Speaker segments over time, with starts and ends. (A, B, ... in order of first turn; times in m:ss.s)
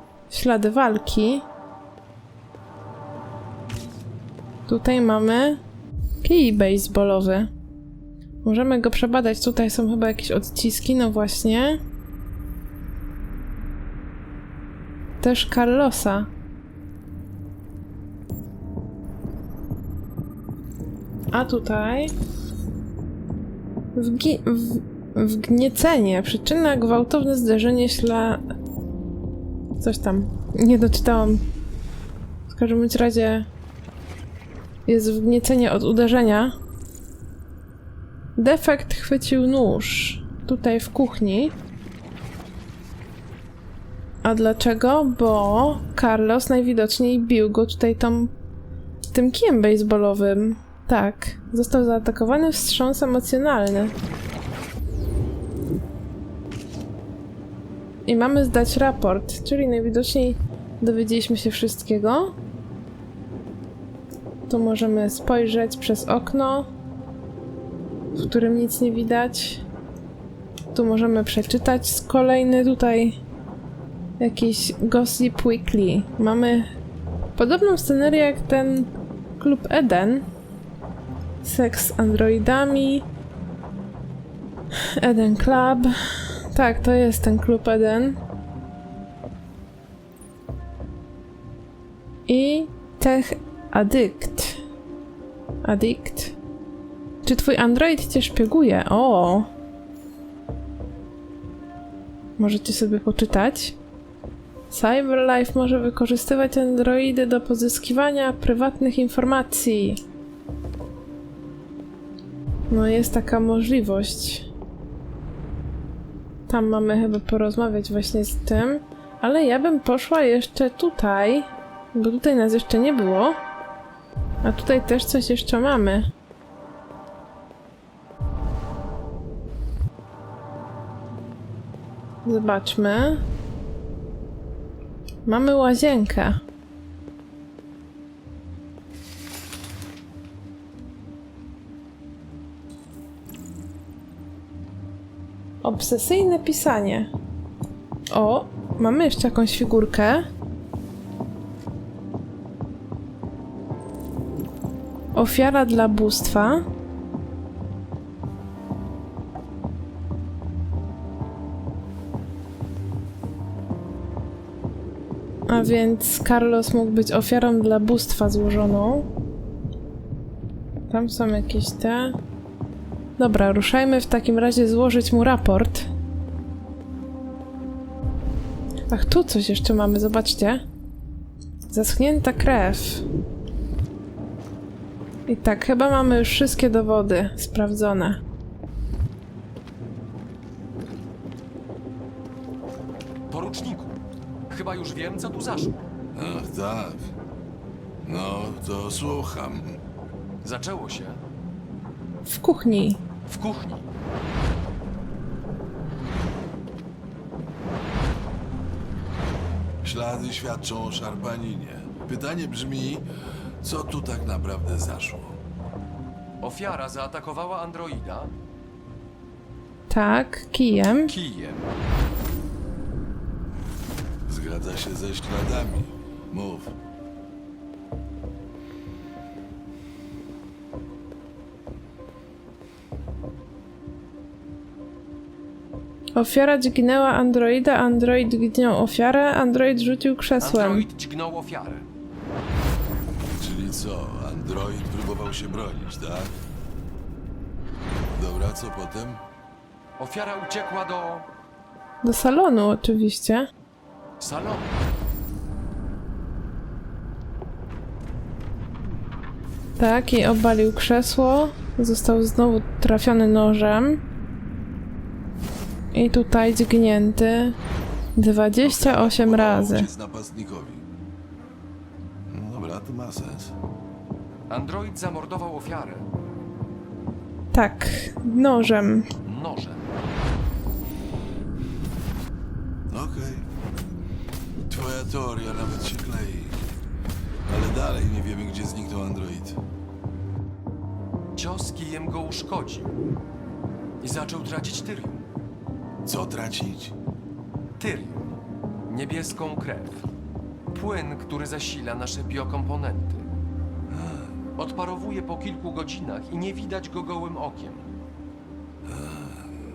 0:00.3-0:01.5 A
0:04.7-0:05.6 A
0:06.2-0:07.5 A
0:08.4-0:11.8 A
0:15.2-0:16.3 A
0:21.3-0:22.1 A
0:24.0-0:28.4 A
0:29.8-0:31.4 A
0:32.5-0:33.5 A
0:34.9-0:36.6 A
0:38.4-0:41.6 A
0:44.2-0:48.3 A
0:49.1-0:54.0 A
0:58.0-1:02.4 A
1:04.5-1:06.7 A
1:08.2-1:09.6 A
1:10.7-1:13.2 A
1:14.2-1:16.7 A
1:17.4-1:20.3 A
1:21.4-1:23.1 A
1:25.0-1:25.9 A
1:26.5-1:28.2 A
1:32.3-1:34.6 A
1:35.6-1:36.4 A
1:37.2-1:39.5 A
1:42.4-1:43.8 A
1:44.7-1:50.0 A
1:52.7-1:54.5 A
1:56.5-2:03.4 A
2:04.4-2:06.1 A
2:12.2-2:13.2 A
2:15.3-2:16.4 A
2:25.6-2:27.1 A
2:28.1-2:30.3 A
2:35.2-2:36.6 A
2:45.5-2:49.1 A
2:50.9-2:52.2 A
2:53.2-2:55.9 A
2:58.9-3:00.6 A
3:01.7-3:03.0 A
3:05.3-3:08.2 A
3:13.3-3:14.0 B
3:14.5-3:15.8 B
3:16.1-3:17.1 C
3:18.0-3:19.8 C
3:20.4-3:21.2 B
3:22.3-3:23.0 A
3:23.3-3:23.9 B
3:29.8-3:33.0 C
3:33.6-3:35.4 C
3:36.4-3:38.3 B
3:39.9-3:41.1 A
3:41.0-3:41.7 B
3:44.3-3:46.7 C
3:56.2-4:00.9 A
4:00.4-4:01.9 B
4:03.4-4:06.3 C
4:08.1-4:09.2 C
4:10.0-4:11.3 B
4:12.0-4:13.5 A
4:14.2-4:14.8 B
4:19.8-4:24.0 A
4:25.9-4:27.6 A
4:28.2-4:29.9 A
4:28.6-4:30.9 C
4:32.3-4:33.6 C
4:34.5-4:36.1 B
4:37.5-4:39.1 A
4:39.2-4:39.9 B
4:42.9-4:43.5 C
4:44.7-4:46.6 C
4:47.5-4:49.6 C
4:51.4-4:52.9 B
4:54.0-4:55.2 B
4:56.1-4:57.0 C
4:57.8-4:58.4 B
4:58.9-5:00.0 B
5:00.7-5:03.3 B
5:03.9-5:04.4 C
5:04.6-5:07.9 B
5:08.8-5:09.5 C